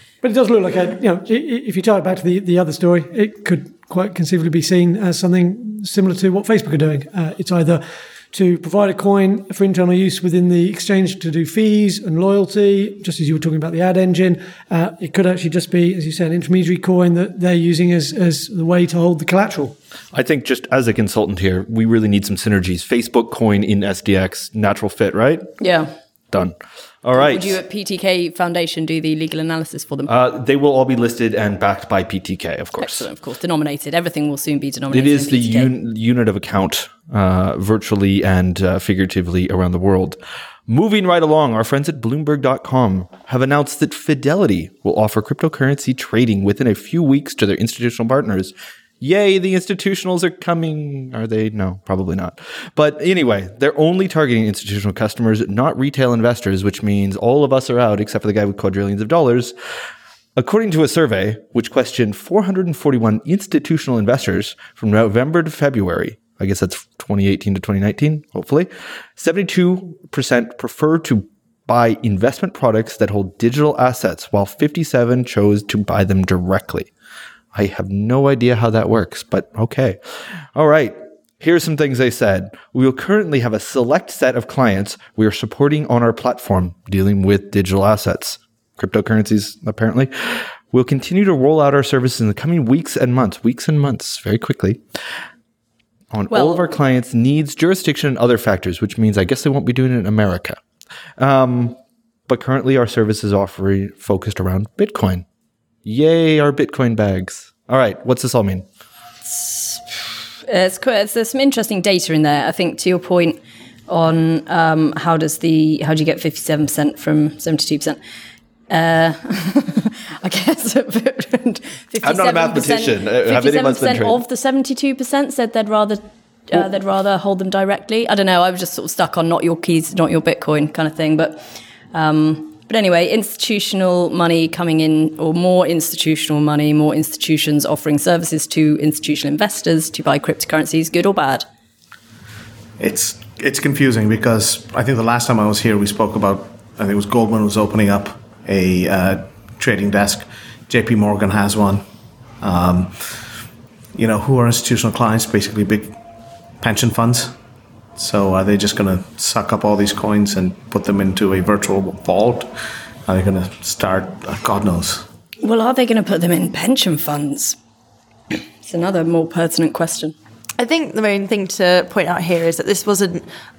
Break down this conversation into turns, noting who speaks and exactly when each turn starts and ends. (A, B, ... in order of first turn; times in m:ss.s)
0:00.2-0:19.8 A
0:20.1-0:25.5 B
0:25.6-0:25.9 C
0:26.3-0:27.6 B
0:27.1-0:30.1 C
0:30.1-0:33.1 B
0:32.8-0:35.7 C
0:34.9-0:59.6 B
1:00.4-1:16.9 B
1:17.5-1:34.8 B
1:36.1-1:40.6 B
1:36.3-1:36.7 C
1:41.2-1:45.2 B
1:45.8-1:48.6 B
1:49.3-1:49.8 C
1:50.5-1:58.0 C
1:58.7-2:21.5 C
2:02.0-2:04.2 B
2:22.8-2:31.8 D
2:32.4-2:33.0 D
2:34.0-2:36.0 D
2:36.6-2:37.4 D
2:38.0-2:42.5 D
2:43.1-2:45.1 D
2:45.4-2:47.6 C
2:48.6-2:50.1 C
2:50.6-2:53.3 E